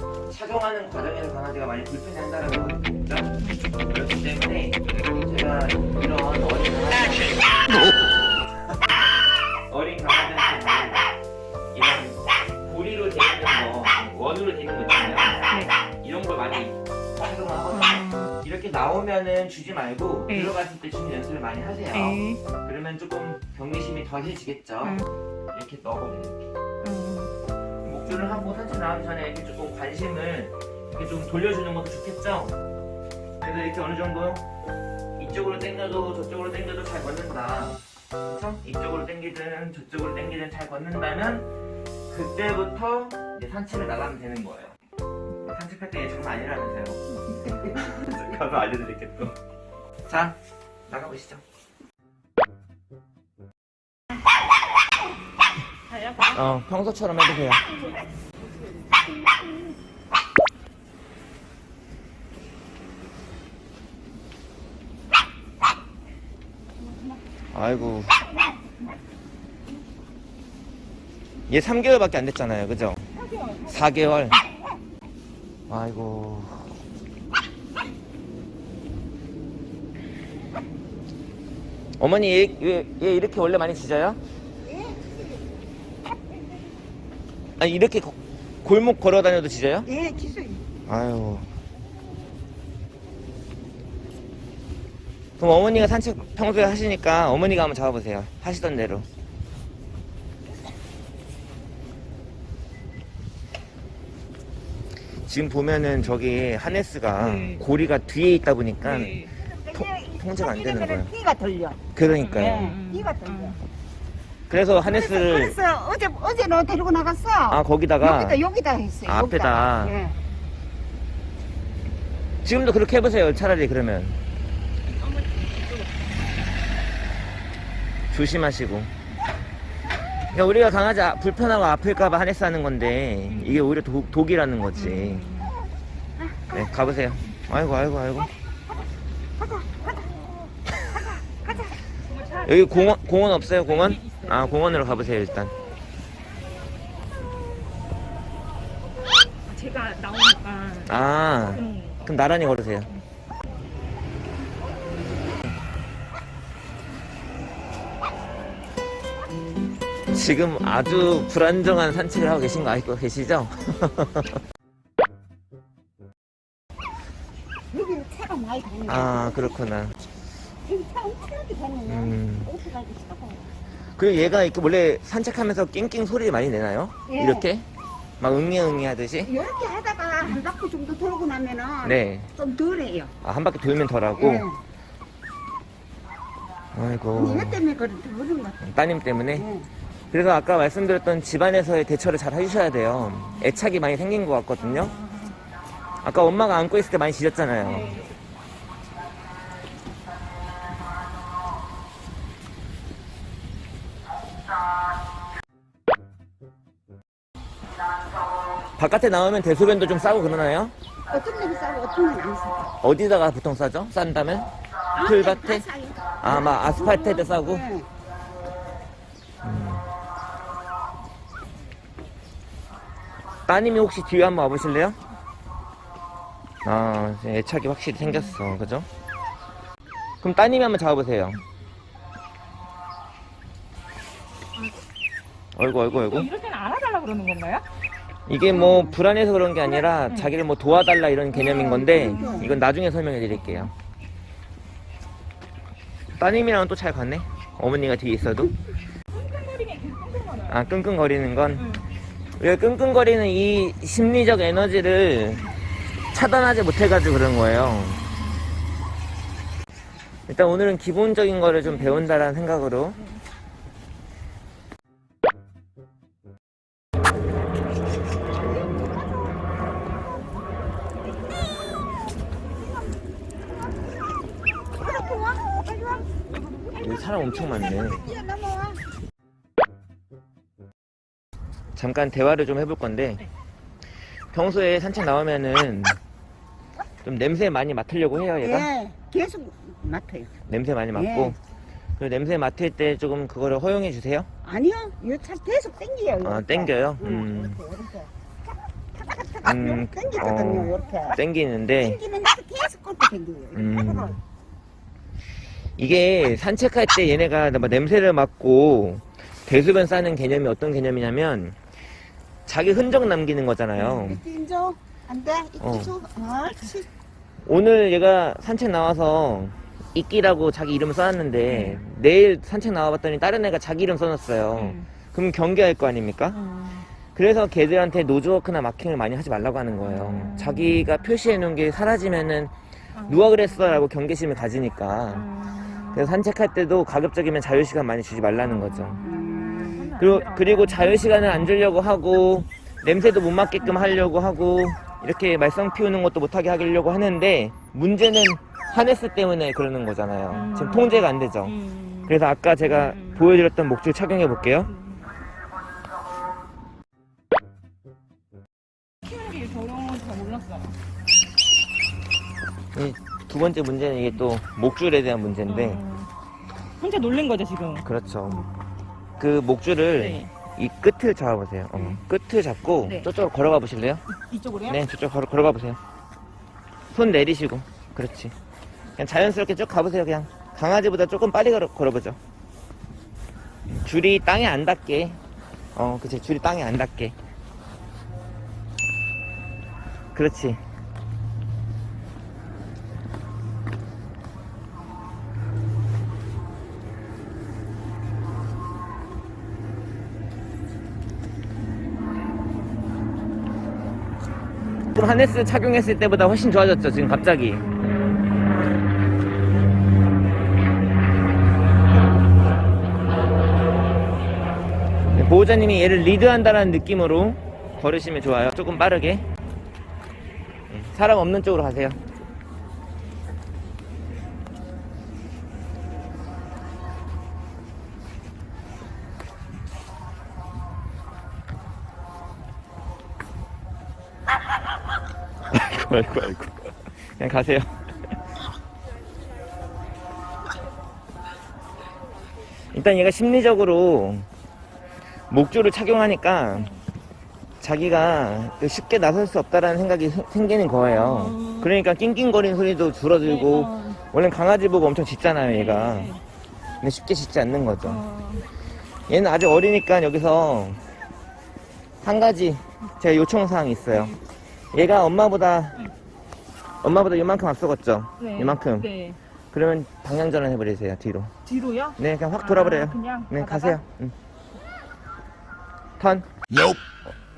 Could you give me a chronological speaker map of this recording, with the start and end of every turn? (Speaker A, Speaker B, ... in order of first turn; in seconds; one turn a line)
Speaker A: 0.3-3.3
Speaker A: 3.9-7.6
Speaker A: 9.7-11.1
Speaker A: 11.7-26.4
Speaker B: 15.5-15.8
Speaker B: 17.7-18.3
Speaker B: 21.9-22.4
Speaker B: 26.8-27.3
Speaker A: 27.8-32.6
Speaker B: 28.1-28.5
Speaker A: 33.4-34.5
Speaker A: 35.2-41.5
Speaker A: 42.1-44.8
Speaker A: 45.4-47.0
Speaker A: 47.5-49.4
Speaker A: 50.1-50.4
Speaker A: 50.9-51.4
Speaker B: 55.9-56.6
Speaker A: 56.3-57.7
Speaker A: 67.5-68.2
Speaker A: 71.5-73.0
Speaker B: 73.2-74.1
Speaker A: 73.7-74.4
Speaker A: 75.7-76.8
Speaker A: 82.0-84.2
Speaker C: 84.7-85.2
Speaker A: 87.6-89.9
Speaker C: 89.9-90.6
Speaker A: 90.9-91.5
Speaker A: 95.4-99.1
Speaker A: 105.3-109.2
Speaker B: 107.2-107.7
Speaker B: 108.8-109.3
Speaker C: 109.5-111.8
Speaker A: 109.8-111.1
Speaker A: 111.9-112.8
Speaker B: 112.0-113.6
Speaker C: 112.3-113.6
Speaker A: 114.5-115.6
Speaker C: 114.8-120.2
Speaker A: 117.5-118.4
Speaker A: 119.1-120.0
Speaker A: 122.4-124.2
Speaker A: 128.1-128.9
Speaker A: 130.3-135.3
Speaker B: 133.3-133.7
Speaker B: 134.8-135.5
Speaker C: 136.2-136.7
Speaker A: 136.5-138.3
Speaker C: 139.4-141.8
Speaker B: 142.0-145.1
Speaker A: 142.4-145.5
Speaker B: 149.5-151.0
Speaker A: 150.9-152.9
Speaker B: 151.5-152.0
Speaker A: 160.1-164.4
Speaker C: 167.7-169.7
Speaker A: 168.9-170.0
Speaker C: 170.6-173.4
Speaker A: 171.9-172.5
Speaker A: 174.0-177.7
Speaker C: 177.1-177.5
Speaker A: 178.2-179.3
Speaker C: 179.2-183.1
Speaker A: 181.8-182.3
Speaker A: 183.2-184.5
Speaker C: 184.2-184.6
Speaker A: 186.7-187.6
Speaker C: 187.2-188.6
Speaker A: 188.6-189.5
Speaker C: 189.3-189.7
Speaker A: 190.1-194.9
Speaker B: 194.6-195.4
Speaker A: 196.0-198.0
Speaker B: 197.6-198.2
Speaker A: 208.8-210.7
Speaker C: 211.1-212.7
Speaker A: 212.8-214.5
Speaker C: 214.9-217.9
Speaker A: 215.0-215.7
Speaker A: 216.2-217.7
Speaker A: 219.4-219.8
Speaker A: 223.5-225.0
Speaker A: 226.6-228.9
Speaker B: 228.0-228.4
Speaker A: 230.2-231.4
Speaker A: 235.6-236.3
Speaker B: 235.9-237.7
Speaker A: 238.3-243.7
Speaker C: 238.5-239.0
Speaker B: 240.1-240.4
Speaker C: 241.4-242.6
Speaker B: 241.4-242.6
Speaker A: 246.2-248.6
Speaker B: 249.1-250.8
Speaker A: 250.5-251.7
Speaker B: 251.6-251.9
Speaker A: 252.4-255.5
Speaker A: 256.1-258.0
Speaker A: 260.3-263.0
Speaker B: 261.6-262.2
Speaker C: 274.7-276.1
Speaker B: 276.4-278.0
Speaker A: 276.8-278.2
Speaker C: 277.9-278.8
Speaker A: 281.7-283.2
Speaker A: 284.3-286.0
Speaker A: 287.0-288.7
Speaker C: 288.4-290.3
Speaker A: 290.5-291.4
Speaker C: 290.9-291.4
Speaker A: 292.0-294.3
Speaker C: 294.4-298.1
Speaker A: 296.2-297.6
Speaker C: 299.0-301.2
Speaker A: 299.4-302.0
Speaker C: 301.8-304.2
Speaker A: 303.5-304.2
Speaker A: 305.8-311.6
Speaker A: 312.5-314.2
Speaker B: 313.8-314.1
Speaker C: 314.0-316.9
Speaker A: 315.6-315.9
Speaker A: 317.5-326.4
Speaker B: 321.5-321.8
Speaker B: 324.5-324.9
Speaker B: 326.3-326.9
Speaker A: 327.1-332.5
Speaker B: 329.9-330.9
Speaker B: 332.9-333.9
Speaker A: 333.1-335.3
Speaker B: 335.1-336.1
Speaker A: 335.9-339.0
Speaker C: 339.0-339.9
Speaker B: 339.5-341.5
Speaker A: 340.0-351.6
Speaker B: 343.6-343.9
Speaker B: 350.3-353.3
Speaker A: 352.1-354.7
Speaker B: 354.7-355.0
Speaker B: 359.0-360.8
Speaker A: 362.8-365.8
Speaker B: 365.5-366.1
Speaker B: 366.8-368.4
Speaker A: 367.8-368.4
Speaker A: 369.2-374.0
Speaker B: 369.9-370.3
Speaker B: 371.8-372.0
Speaker B: 374.1-374.8
Speaker A: 374.7-375.8
Speaker A: 376.9-378.3
Speaker A: 379.0-382.2
Speaker A: 383.7-385.2
Speaker A: 385.8-387.1
Speaker A: 390.1-390.6
Speaker A: 404.9-407.8
Speaker A: 415.1-419.3
Speaker A: 420.7-422.0
Speaker A: 435.5-437.7
Speaker A: 442.7-444.3
Speaker A: 445.3-446.7
Speaker B: 446.5-446.8
Speaker A: 447.6-456.1
Speaker B: 450.8-451.7
Speaker B: 453.2-454.0
Speaker B: 455.4-456.2
Speaker A: 456.8-458.0
Speaker B: 457.8-458.5
Speaker A: 459.1-460.8
Speaker A: 462.0-464.2
Speaker A: 464.7-465.8
Speaker A: 466.8-468.9
Speaker B: 468.2-469.2
Speaker A: 469.5-471.3
Speaker B: 471.5-473.8
Speaker A: 472.0-474.1
Speaker A: 476.0-476.3